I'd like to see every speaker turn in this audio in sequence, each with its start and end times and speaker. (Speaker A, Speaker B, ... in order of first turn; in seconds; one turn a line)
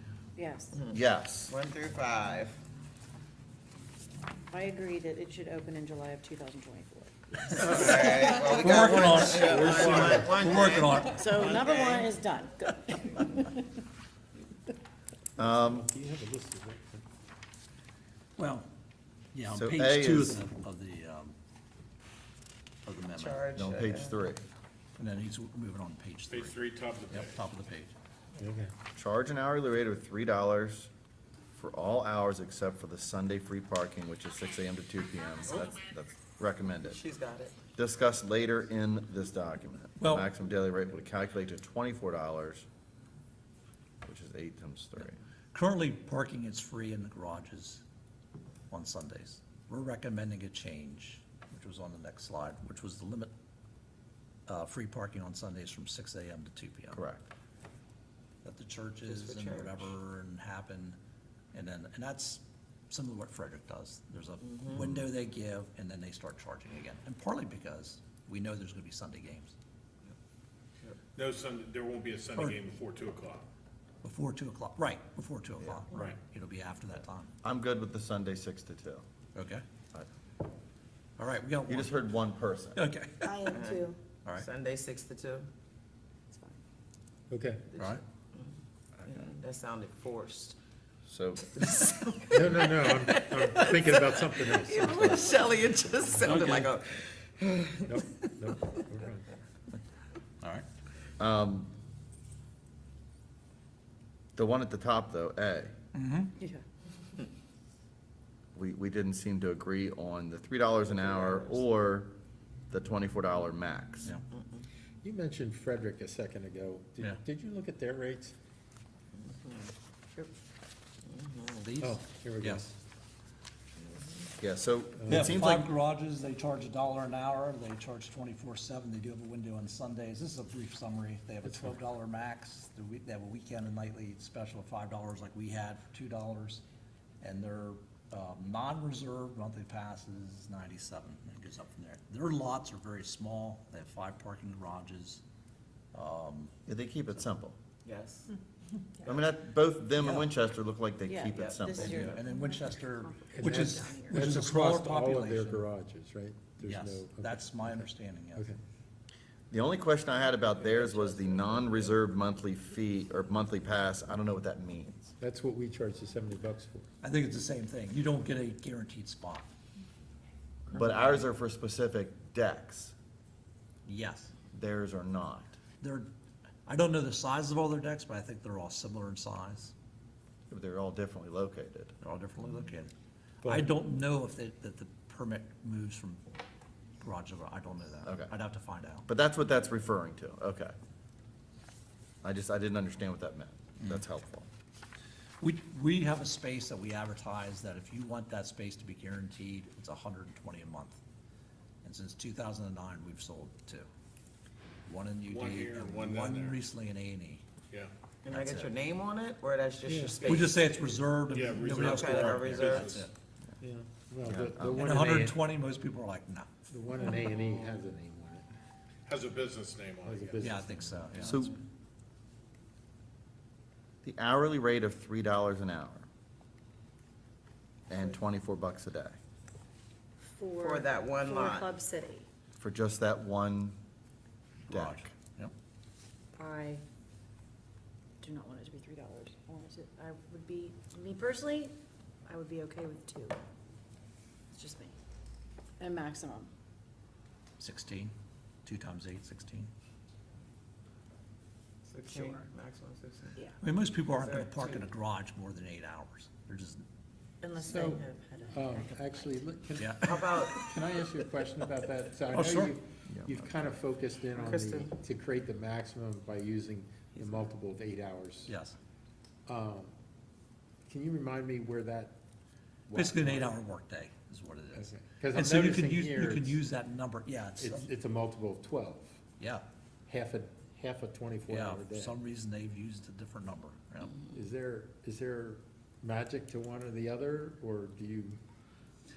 Speaker A: 0.3-0.8
Speaker B: 0.9-1.6
Speaker C: 1.5-2.6
Speaker A: 4.5-9.3
Speaker D: 7.5-11.3
Speaker C: 7.8-12.1
Speaker E: 9.4-10.5
Speaker A: 11.0-13.7
Speaker B: 15.4-15.8
Speaker E: 15.4-17.0
Speaker D: 18.4-18.7
Speaker D: 19.3-21.3
Speaker B: 19.5-20.4
Speaker D: 22.8-23.6
Speaker C: 23.1-24.3
Speaker B: 23.6-24.4
Speaker D: 25.0-27.9
Speaker F: 26.3-27.5
Speaker E: 28.4-28.7
Speaker B: 28.9-30.9
Speaker B: 31.5-37.0
Speaker C: 36.9-37.6
Speaker B: 37.8-42.7
Speaker D: 40.0-40.3
Speaker B: 44.0-45.2
Speaker D: 45.0-47.8
Speaker D: 48.7-53.3
Speaker D: 54.5-57.0
Speaker B: 56.9-57.3
Speaker D: 58.4-61.0
Speaker C: 59.1-59.9
Speaker D: 61.5-69.5
Speaker C: 64.4-65.1
Speaker F: 71.1-73.5
Speaker D: 74.0-77.3
Speaker B: 77.4-79.0
Speaker D: 79.3-79.6
Speaker D: 81.2-82.0
Speaker B: 81.7-82.8
Speaker D: 82.7-83.4
Speaker A: 83.2-84.0
Speaker C: 83.5-85.5
Speaker E: 87.3-87.7
Speaker C: 87.7-88.5
Speaker D: 87.8-88.0
Speaker C: 89.0-90.5
Speaker B: 91.0-91.5
Speaker C: 91.5-98.8
Speaker E: 92.3-95.4
Speaker D: 96.2-96.7
Speaker E: 97.9-99.3
Speaker B: 101.2-101.7
Speaker B: 104.3-105.7
Speaker D: 105.9-106.3
Speaker B: 108.5-112.1
Speaker B: 112.7-114.1
Speaker E: 115.0-118.3
Speaker C: 119.3-119.6
Speaker C: 121.1-121.6
Speaker D: 121.6-122.7
Speaker E: 121.8-122.7
Speaker B: 124.4-125.7
Speaker E: 125.0-125.4
Speaker D: 125.1-136.6
Speaker E: 131.4-131.8
Speaker D: 137.2-145.2
Speaker D: 145.9-146.5
Speaker B: 146.7-147.6
Speaker C: 147.8-148.2
Speaker B: 149.0-152.2
Speaker D: 150.0-150.3
Speaker A: 151.1-154.2
Speaker C: 151.4-152.2
Speaker D: 151.8-155.7
Speaker E: 153.3-158.6
Speaker D: 156.6-158.5
Speaker B: 159.5-165.1
Speaker C: 160.9-161.8
Speaker E: 165.2-166.9
Speaker D: 167.0-169.5
Speaker B: 170.7-172.9
Speaker D: 173.9-174.3
Speaker B: 174.5-175.6
Speaker D: 175.8-176.1
Speaker D: 176.7-179.7
Speaker B: 180.5-181.9
Speaker D: 182.0-186.2
Speaker E: 183.4-183.7
Speaker D: 187.0-189.1
Speaker B: 188.1-188.3
Speaker B: 189.1-190.7
Speaker B: 192.2-194.5
Speaker D: 195.4-201.0
Speaker D: 201.8-203.9
Speaker D: 204.9-207.4
Speaker F: 205.3-206.6
Speaker C: 208.2-210.9
Speaker D: 208.3-208.7
Speaker E: 209.8-210.3
Speaker D: 210.2-213.1
Speaker F: 211.3-213.1
Speaker C: 211.8-212.9
Speaker E: 213.6-215.4
Speaker B: 214.2-214.8
Speaker D: 214.7-216.5
Speaker E: 216.7-218.4
Speaker F: 219.1-220.5
Speaker E: 220.0-221.2
Speaker D: 220.4-221.5
Speaker B: 221.2-221.6
Speaker B: 224.0-226.1
Speaker B: 227.9-229.2
Speaker A: 230.2-232.2
Speaker C: 230.6-231.7
Speaker B: 232.6-233.8
Speaker D: 234.7-235.5
Speaker B: 234.7-235.1
Speaker A: 236.4-236.8
Speaker A: 238.2-241.7
Speaker A: 242.2-243.4
Speaker A: 244.5-244.9
Speaker A: 245.8-246.5
Speaker D: 247.6-248.1
Speaker D: 248.7-249.7
Speaker C: 251.9-253.4
Speaker D: 253.6-256.8
Speaker C: 254.1-254.9
Speaker C: 257.4-258.5
Speaker E: 257.6-268.6
Speaker A: 257.6-258.0
Speaker A: 258.6-258.9
Speaker D: 259.8-260.5
Speaker C: 260.0-260.6
Speaker D: 262.3-262.8
Speaker B: 263.1-263.5
Speaker C: 264.4-264.9
Speaker D: 268.5-268.8
Speaker E: 269.4-269.9
Speaker E: 270.9-272.2
Speaker E: 272.9-273.6
Speaker D: 272.9-277.9
Speaker E: 274.7-276.6
Speaker E: 277.6-279.1
Speaker E: 280.1-282.2
Speaker D: 281.5-284.2
Speaker E: 284.3-288.4